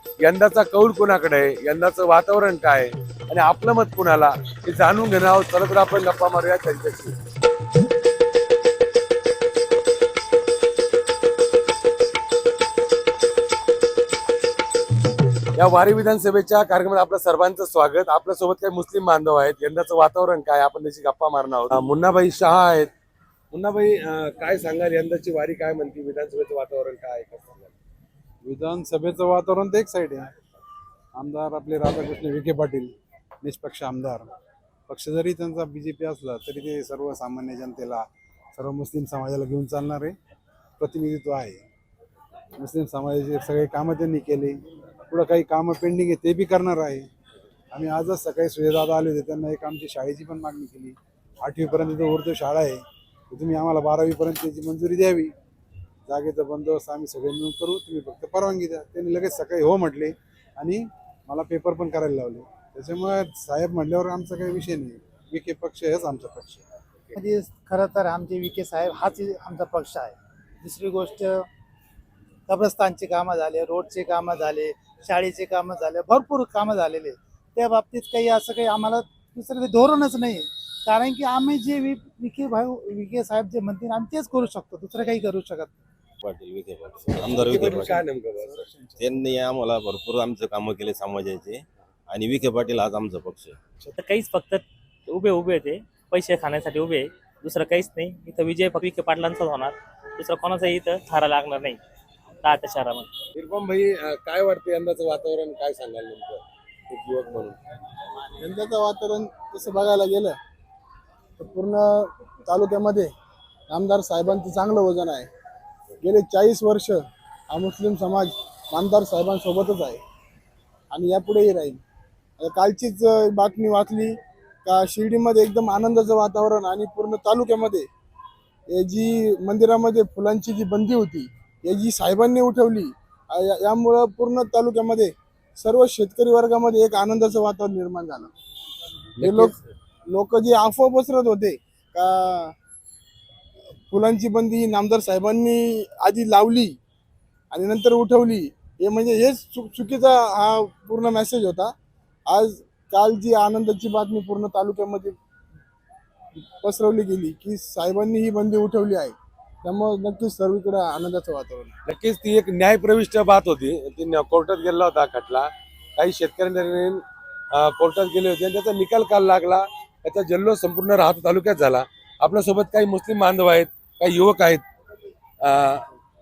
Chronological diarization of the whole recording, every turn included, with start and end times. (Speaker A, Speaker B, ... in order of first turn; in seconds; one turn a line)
Speaker A: 0.2-7.1
Speaker A: 15.6-22.9
Speaker A: 23.5-27.7
Speaker B: 28.4-30.3
Speaker B: 31.1-34.3
Speaker B: 34.9-40.1
Speaker B: 40.8-41.6
Speaker B: 42.6-47.1
Speaker B: 47.7-55.3
Speaker B: 56.1-66.6
Speaker C: 67.2-71.4
Speaker C: 72.5-85.7
Speaker D: 86.2-88.0
Speaker A: 87.2-88.7
Speaker D: 89.0-93.5
Speaker E: 94.0-101.8
Speaker E: 102.4-103.0
Speaker A: 103.3-107.6
Speaker F: 108.4-110.4
Speaker F: 111.4-113.1
Speaker F: 113.7-115.3
Speaker F: 116.0-120.0
Speaker F: 120.9-121.8
Speaker F: 122.4-127.9
Speaker F: 128.7-138.3
Speaker F: 139.2-139.6
Speaker A: 139.2-139.5
Speaker F: 140.1-142.5
Speaker F: 143.9-146.8
Speaker F: 147.5-151.7
Speaker F: 152.3-155.2
Speaker F: 156.6-161.7
Speaker A: 161.8-174.6
Speaker A: 175.4-175.8